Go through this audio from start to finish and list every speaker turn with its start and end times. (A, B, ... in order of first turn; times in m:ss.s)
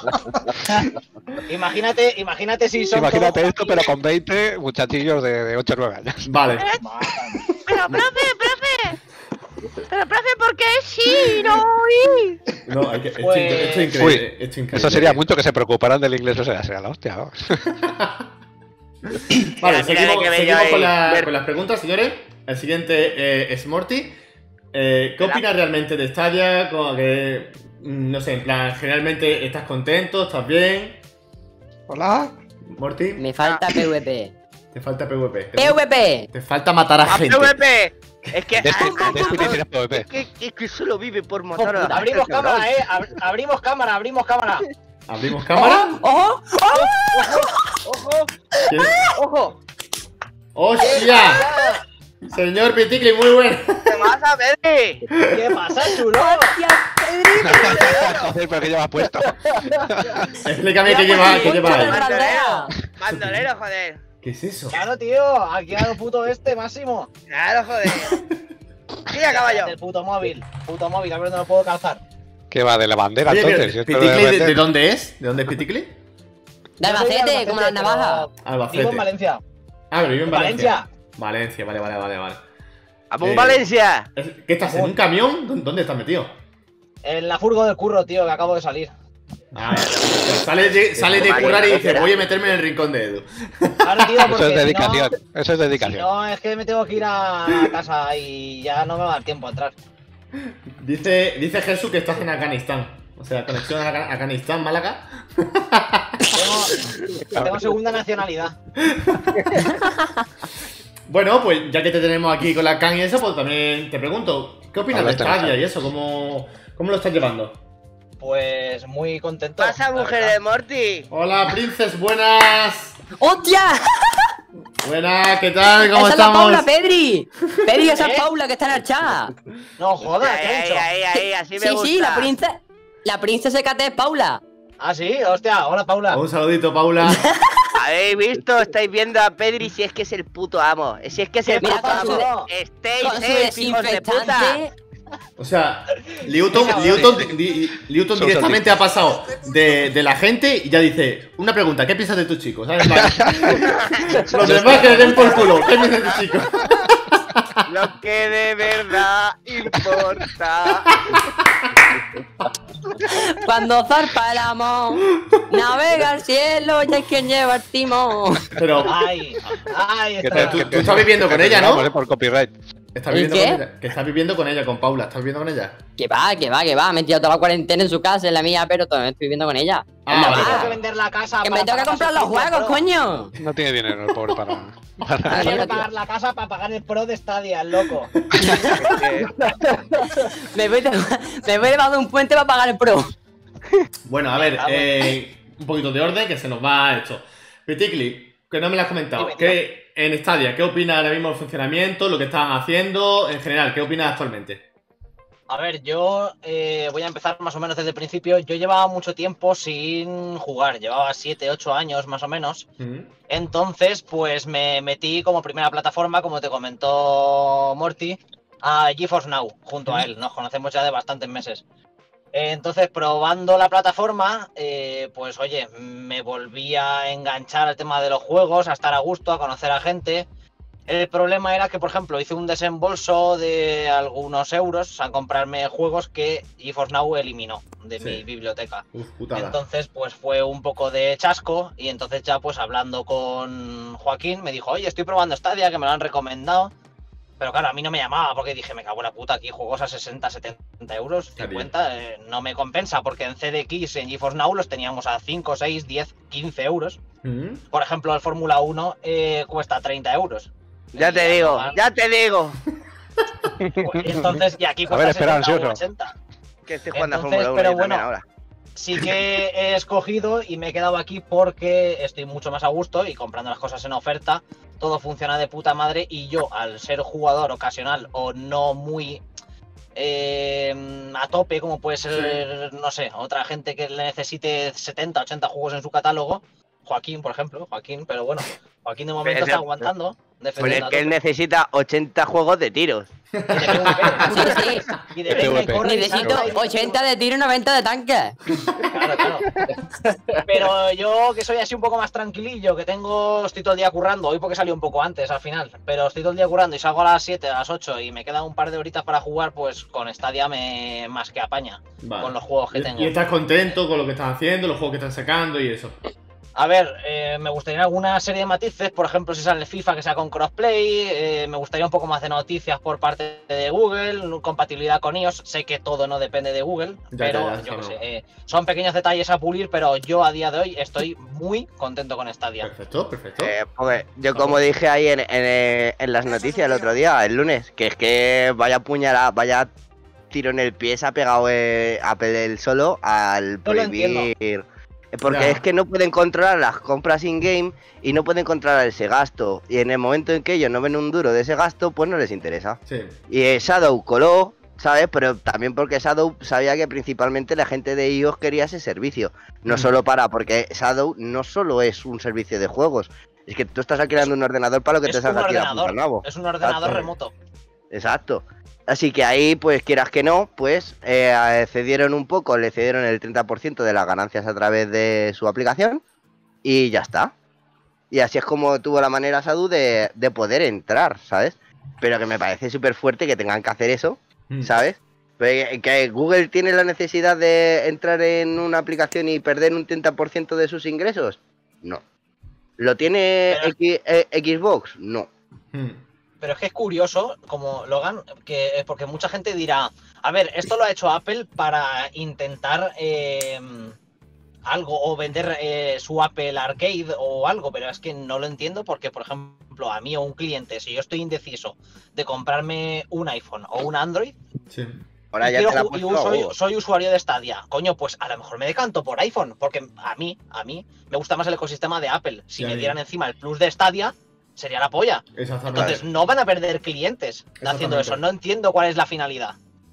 0:01.5-0:03.8 A
0:02.9-0:06.3 B
0:06.2-0:06.7 C
0:06.8-0:07.4 A
0:07.7-0:09.0 D
0:09.9-0:12.4 D
0:12.7-0:15.2 C
0:13.2-0:13.9 A
0:14.0-0:17.7 B
0:17.8-0:18.3 C
0:19.1-0:24.2 C
0:19.6-0:21.3 D
0:24.7-0:31.0 C
0:31.9-0:32.4 E
0:32.7-0:33.2 C
0:33.2-0:34.3 F
0:34.7-0:37.6 C
0:35.6-0:36.3 F
0:37.1-0:42.7 D
0:38.6-0:40.1 B
0:38.8-0:39.5 F
0:41.6-0:42.0 F
0:41.9-0:44.6 A
0:45.1-0:46.0 C
0:45.5-0:47.6 F
0:47.1-0:48.3 D
0:48.7-0:49.0 F
0:48.7-0:49.0 C
0:49.1-0:49.6 D
0:50.6-0:51.4 C
0:50.8-0:51.8 A
0:52.3-0:54.2 C
0:53.9-0:55.1 D
0:55.1-0:55.4 C
0:55.3-0:56.6 A
0:56.1-0:58.0 F
0:57.4-1:00.3 B
0:57.5-0:58.3 D
1:00.3-1:02.0 C
1:00.9-1:02.7 F
1:00.9-1:04.0 D
1:01.3-1:02.5 A
1:03.1-1:03.5 C
1:04.2-1:04.8 C
1:04.7-1:07.1 A
1:07.3-1:08.2 D
1:09.1-1:09.7 D
1:09.3-1:12.0 A
1:12.5-1:14.6 B
1:13.3-1:16.0 C
1:16.8-1:18.2 F
1:16.8-1:19.4 A
1:18.4-1:19.1 C
1:19.9-1:22.4 C
1:20.3-1:20.9 A
1:23.1-1:24.1 D
1:23.2-1:26.3 C
1:27.0-1:28.9 A
1:29.5-1:34.4 C
1:31.0-1:32.3 D
1:31.4-1:31.7 A
1:33.8-1:35.1 A
1:34.3-1:36.1 B
1:35.8-1:39.7 A
1:40.8-1:46.3 C
1:46.3-1:46.8 A
1:47.3-1:48.6 A
1:48.8-1:49.2 C
1:51.1-1:57.6 C
1:54.9-1:55.6 B
1:58.2-2:00.4 A
1:59.6-2:01.1 D
2:01.1-2:03.0 C
2:03.2-2:04.3 F
2:04.8-2:06.7 C
2:05.9-2:09.3 F
2:07.9-2:08.3 A
2:09.8-2:10.9 A
2:10.2-2:12.3 D
2:11.6-2:14.4 F
2:14.8-2:16.2 A
2:16.1-2:17.2 C
2:17.8-2:24.6 D
2:21.4-2:22.5 A
2:21.6-2:22.3 F
2:23.0-2:24.7 F
2:25.4-2:37.6 C
2:26.5-2:27.3 A
2:28.2-2:28.7 B
2:28.8-2:29.9 E
2:33.0-2:33.5 B
2:34.0-2:35.6 D
2:34.4-2:35.2 B
2:37.7-2:40.9 D
2:43.0-2:48.5 F
2:48.6-2:49.0 C
2:48.9-2:50.8 A
2:50.2-2:52.5 B
2:50.3-2:51.9 C
2:53.0-2:55.8 C
2:53.1-2:53.6 F
2:56.0-3:00.7 F
3:00.0-3:00.8 C
3:00.1-3:02.8 A
3:01.4-3:03.3 F
3:03.4-3:05.8 B
3:04.2-3:04.6 C
3:05.3-3:05.9 F
3:05.3-3:08.1 A
3:08.7-3:09.4 D
3:10.5-3:13.1 F
3:14.1-3:24.6 C
3:14.3-3:15.0 A
3:19.2-3:19.6 A
3:25.5-3:32.7 A
3:32.8-3:33.1 C
3:33.3-3:41.6 A
3:42.3-3:50.3 A
3:50.9-4:06.7 A
3:58.9-3:59.6 C
4:07.4-4:17.0 A
4:11.4-4:11.7 C
4:17.2-4:17.6 C
4:17.7-4:21.8 A
4:21.0-4:22.6 D
4:23.8-4:26.1 A
4:24.9-4:25.8 B
4:26.7-4:28.2 D
4:26.9-4:28.1 A
4:28.8-4:39.2 A
4:40.0-4:51.1 A
4:42.1-4:42.4 C
4:49.2-4:49.8 D
4:50.6-4:53.1 D
4:53.3-4:54.3 C
4:53.5-4:57.0 A
4:54.2-4:54.9 F
4:55.3-4:56.4 B
4:55.8-4:58.4 F
4:58.9-4:59.5 A
5:00.5-5:13.2 A
5:12.0-5:16.0 C
5:16.6-5:32.7 A
5:27.1-5:28.0 C
5:32.6-5:33.5 C
5:33.4-5:39.7 D
5:36.5-5:36.9 E
5:40.3-6:07.1 D
5:43.7-5:44.3 A
5:45.3-5:45.6 C
5:52.9-5:53.2 C
5:59.7-5:59.9 C
6:05.0-6:07.3 A
6:07.9-6:16.0 D
6:16.6-6:17.3 D
6:18.1-6:32.0 D
6:32.8-6:35.3 D
6:35.7-6:36.0 C
6:36.4-6:44.0 A
6:44.7-6:54.4 A
6:54.7-6:55.0 C
6:55.3-6:56.5 D
6:55.4-7:05.2 A
7:02.6-7:03.0 C
7:05.4-7:06.0 C
7:05.7-7:06.0 D
7:05.8-7:09.6 A
7:07.6-7:08.2 C